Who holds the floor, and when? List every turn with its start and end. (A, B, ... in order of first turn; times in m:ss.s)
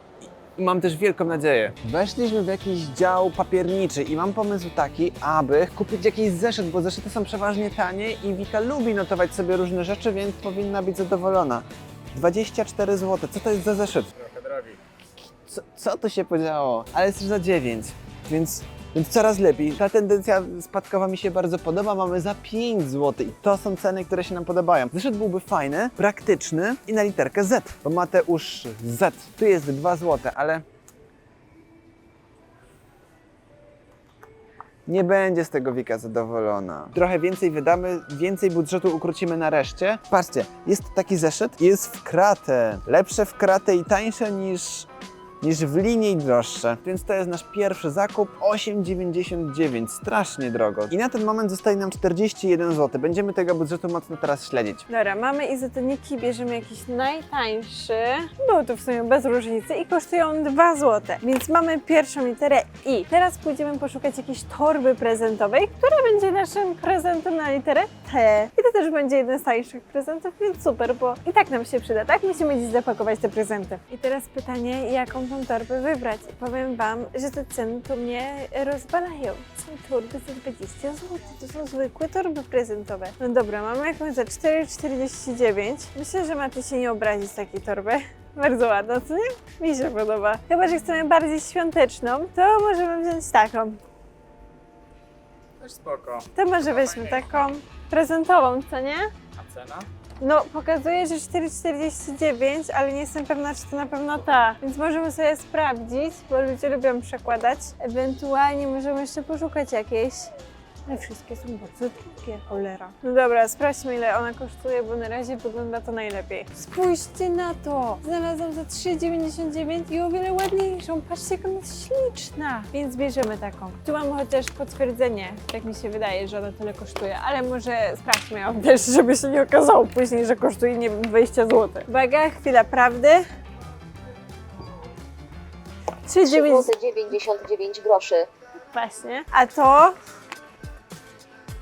0:00.6-0:14.1 A
0:14.2-0:14.8 B
0:15.4-0:30.6 A
0:34.9-0:44.9 A
0:45.4-0:54.8 A
0:54.9-1:33.8 C
1:35.6-1:37.1 B
1:36.3-1:39.1 C
1:39.4-1:39.9 B
1:40.2-1:50.3 C
1:50.9-2:13.2 C
2:16.1-2:16.7 C
2:16.3-2:18.3 D
2:18.7-2:19.9 C